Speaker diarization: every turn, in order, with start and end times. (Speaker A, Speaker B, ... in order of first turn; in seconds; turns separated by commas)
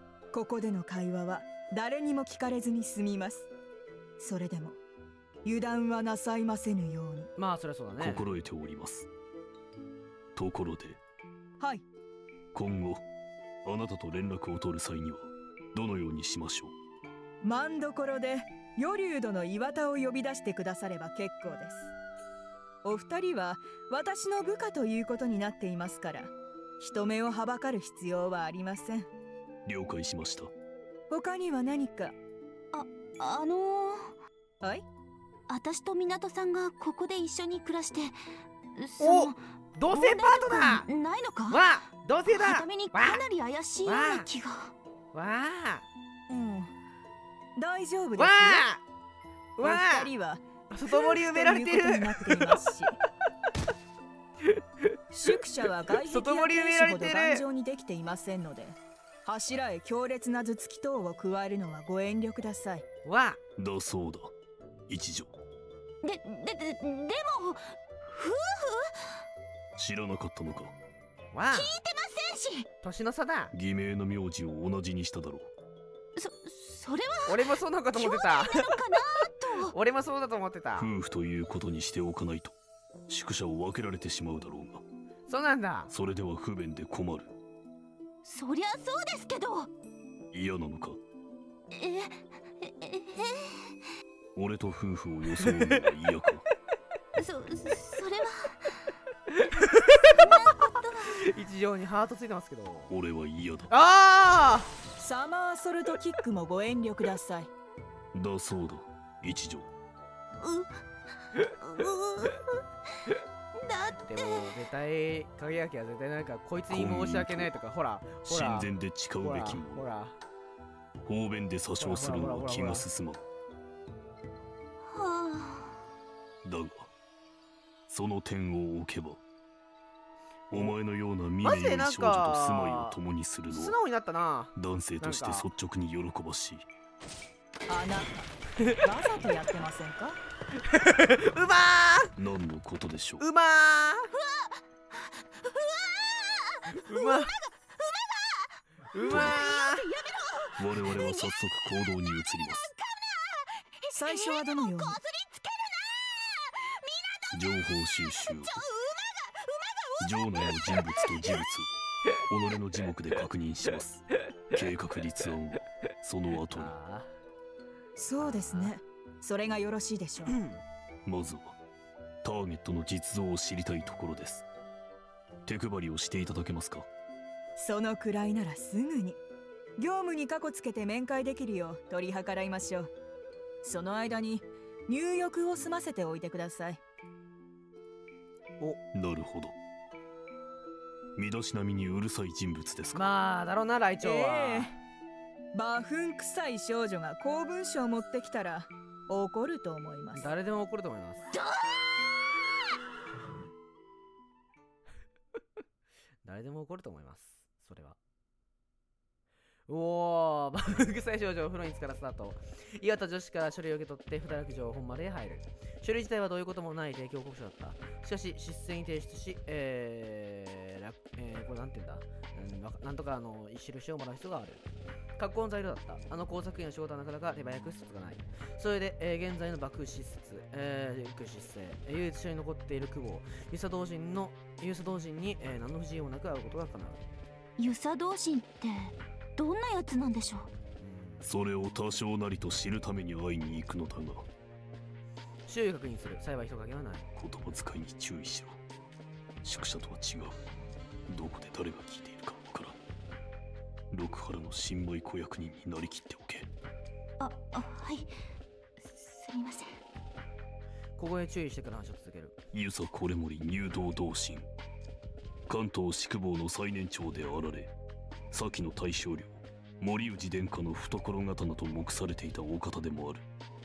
Speaker A: 0.3-3.5, Speaker A: 4.2-4.8, Speaker A: 5.4-7.3, Speaker B: 7.4-8.2, Speaker C: 8.0-9.1, Speaker C: 10.3-11.0, Speaker A: 11.6-11.8, Speaker C: 12.5-13.0, Speaker C: 13.6-16.7, Speaker A: 17.4-21.9, Speaker A: 22.8-29.1, Speaker C: 29.6-30.5, Speaker A: 31.1-32.1, Speaker D: 32.7-34.1, Speaker D: 35.5-38.1, Speaker D: 38.8-41.6, Speaker B: 39.0-40.9, Speaker B: 41.5-43.2, Speaker D: 42.2-44.7, Speaker B: 43.9-44.2, Speaker B: 45.1-45.8, Speaker A: 46.3-46.7, Speaker A: 47.5-48.6, Speaker B: 48.1-48.8, Speaker B: 49.6-50.1, Speaker A: 49.6-53.0, Speaker B: 50.7-52.6, Speaker A: 55.1-62.8, Speaker B: 56.0-57.4, Speaker B: 63.0-63.4, Speaker C: 63.6-64.3, Speaker C: 64.9-65.3, Speaker D: 66.0-69.2, Speaker C: 69.8-70.7, Speaker B: 71.3-71.7, Speaker D: 71.5-72.7, Speaker B: 72.8-73.5, Speaker C: 73.5-75.5, Speaker D: 76.2-77.4, Speaker B: 77.3-78.8, Speaker D: 77.9-79.7, Speaker B: 79.6-80.9, Speaker C: 80.8-82.5, Speaker C: 83.1-84.8, Speaker B: 85.3-85.9, Speaker C: 85.9-87.3, Speaker D: 88.2-89.7, Speaker C: 90.3-91.0, Speaker D: 91.7-93.7, Speaker C: 94.3-96.4, Speaker D: 97.2-98.8, Speaker B: 99.4-100.2, Speaker D: 100.1-101.2, Speaker B: 101.2-102.9, Speaker C: 102.9-103.7, Speaker B: 103.7-104.7, Speaker A: 105.0-107.5, Speaker C: 108.1-109.7, Speaker D: 110.4-110.8, Speaker D: 111.3-112.4, Speaker D: 113.6-114.5, Speaker B: 114.0-118.7, Speaker C: 116.7-117.5, Speaker C: 118.2-119.8, Speaker B: 119.2-120.2, Speaker C: 121.0-123.2, Speaker B: 121.8-122.8, Speaker D: 124.9-125.7, Speaker C: 126.4-126.9, Speaker C: 127.9-129.2, Speaker C: 130.5-133.8, Speaker B: 131.4-133.0, Speaker B: 133.5-135.5, Speaker C: 134.5-136.7, Speaker A: 137.7-140.2, Speaker B: 140.6-142.1, Speaker C: 142.2-143.2, Speaker B: 143.2-144.1, Speaker D: 144.2-151.4, Speaker B: 146.8-147.3, Speaker B: 148.9-149.8, Speaker C: 149.1-149.5, Speaker C: 150.6-152.7, Speaker D: 152.1-161.3, Speaker A: 153.9-155.0, Speaker C: 157.3-158.6, Speaker C: 160.0-166.7, Speaker B: 166.5-167.1, Speaker A: 168.0-170.3, Speaker B: 168.2-168.8, Speaker B: 170.3-170.6, Speaker C: 171.0-171.6, Speaker C: 172.2-174.4, Speaker C: 175.4-176.9, Speaker A: 177.6-179.2, Speaker A: 179.8-182.9, Speaker A: 183.6-186.8, Speaker C: 188.9-189.6, Speaker C: 191.2-193.1, Speaker B: 192.9-194.7, Speaker A: 194.0-194.7, Speaker A: 195.5-200.3, Speaker B: 200.1-201.3, Speaker D: 201.3-201.8, Speaker B: 206.2-208.0, Speaker B: 209.7-224.6, Speaker B: 225.2-237.0, Speaker D: 237.6-240.5, Speaker B: 240.8-241.3, Speaker C: 241.2-244.3, Speaker B: 245.5-247.1, Speaker C: 247.2-248.6, Speaker C: 249.4-250.4, Speaker C: 251.1-252.8, Speaker C: 253.9-256.5, Speaker D: 257.2-258.1, Speaker D: 258.8-259.7, Speaker B: 261.0-262.4, Speaker C: 262.5-264.5, Speaker C: 265.5-267.7, Speaker C: 268.3-273.2